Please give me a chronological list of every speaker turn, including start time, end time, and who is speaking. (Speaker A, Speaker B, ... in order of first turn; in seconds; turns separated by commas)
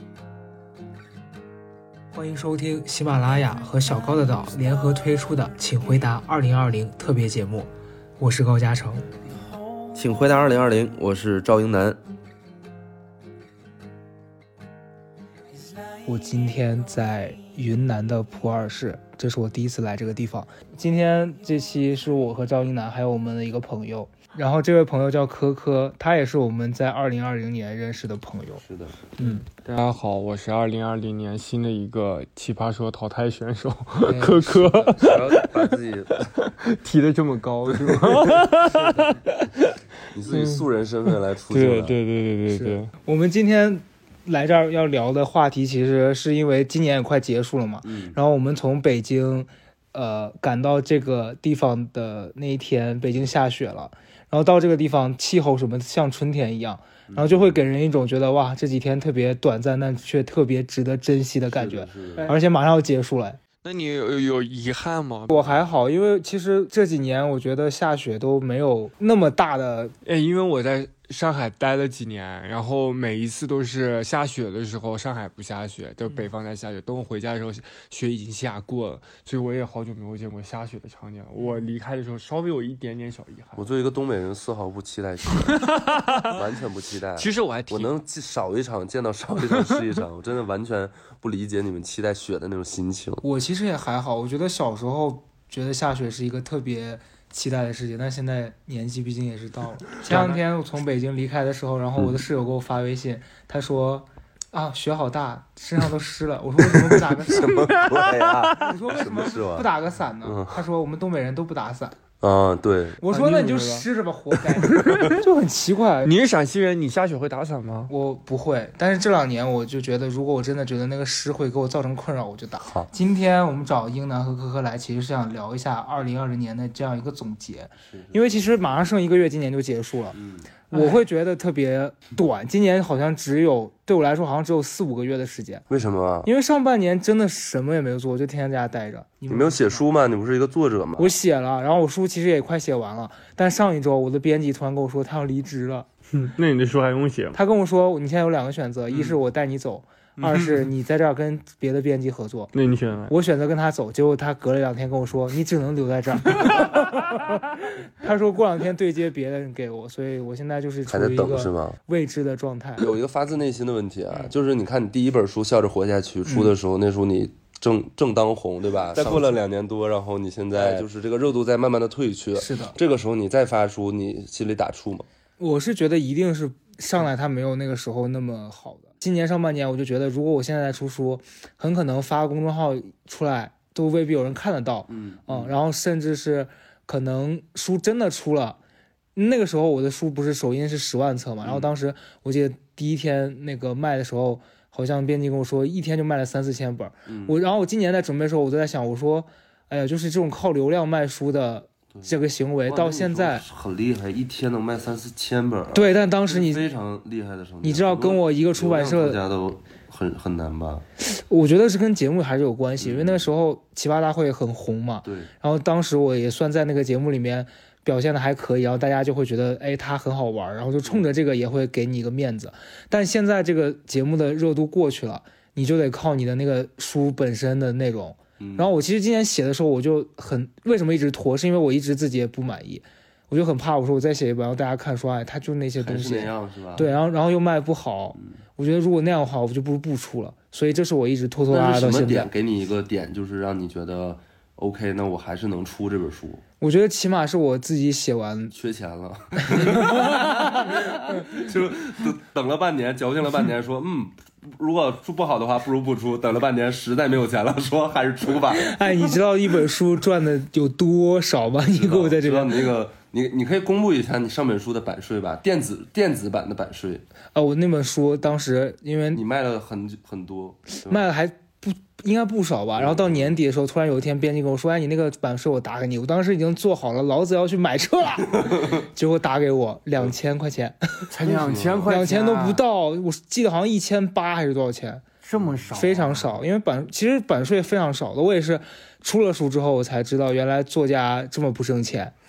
Speaker A: 2.1-9.1, Speaker B: 9.9-12.0, Speaker A: 16.0-28.6, Speaker B: 28.6-29.0, Speaker A: 29.2-29.5, Speaker C: 29.2-39.7, Speaker A: 34.0-34.9, Speaker B: 34.9-36.3, Speaker B: 37.7-38.4, Speaker A: 38.7-39.2, Speaker B: 40.1-42.0, Speaker C: 40.3-42.9, Speaker A: 42.5-63.4, Speaker B: 47.8-48.2, Speaker B: 57.1-57.6, Speaker B: 61.5-62.3, Speaker C: 63.6-65.5, Speaker A: 65.3-70.0, Speaker C: 70.0-83.7, Speaker B: 83.6-85.7, Speaker C: 85.5-86.4, Speaker B: 86.3-93.2, Speaker C: 87.2-87.9, Speaker A: 93.2-107.7, Speaker C: 100.0-100.4, Speaker B: 107.3-109.7, Speaker C: 107.4-108.6, Speaker A: 108.6-112.0, Speaker B: 110.2-110.6, Speaker B: 112.2-113.0, Speaker A: 113.0-116.1, Speaker C: 113.1-113.9, Speaker C: 114.5-115.1, Speaker C: 116.0-117.9, Speaker A: 117.9-130.2, Speaker B: 122.6-122.9, Speaker B: 127.9-128.4, Speaker B: 130.2-130.5, Speaker A: 130.7-135.7, Speaker B: 135.7-136.3, Speaker A: 136.2-139.8, Speaker B: 139.3-141.2, Speaker A: 141.0-145.9, Speaker C: 146.2-147.4, Speaker A: 147.3-152.5, Speaker C: 150.2-150.7, Speaker C: 152.5-153.1, Speaker A: 153.1-162.9, Speaker B: 160.9-161.8, Speaker B: 162.8-175.1, Speaker A: 166.3-166.5, Speaker A: 169.0-169.3, Speaker A: 170.6-170.8, Speaker A: 172.4-172.8, Speaker A: 175.4-188.6, Speaker B: 184.9-185.6, Speaker A: 189.2-203.4, Speaker B: 191.4-191.7, Speaker B: 197.1-197.4, Speaker B: 202.7-210.8, Speaker A: 205.7-206.7, Speaker A: 207.6-209.2, Speaker A: 211.0-242.3, Speaker B: 212.8-213.3, Speaker B: 215.0-215.3, Speaker B: 228.4-228.7, Speaker B: 235.8-236.9, Speaker B: 241.5-246.4, Speaker A: 246.6-248.5, Speaker B: 248.5-258.7, Speaker A: 249.4-251.3, Speaker A: 258.5-262.7, Speaker B: 261.7-267.1, Speaker A: 267.4-269.2, Speaker B: 269.1-271.0, Speaker A: 270.9-281.1, Speaker B: 272.8-273.4, Speaker B: 278.4-278.8, Speaker C: 281.1-282.6, Speaker B: 281.2-281.9, Speaker A: 281.9-285.1, Speaker C: 285.2-286.4, Speaker B: 285.4-285.9, Speaker A: 285.8-292.1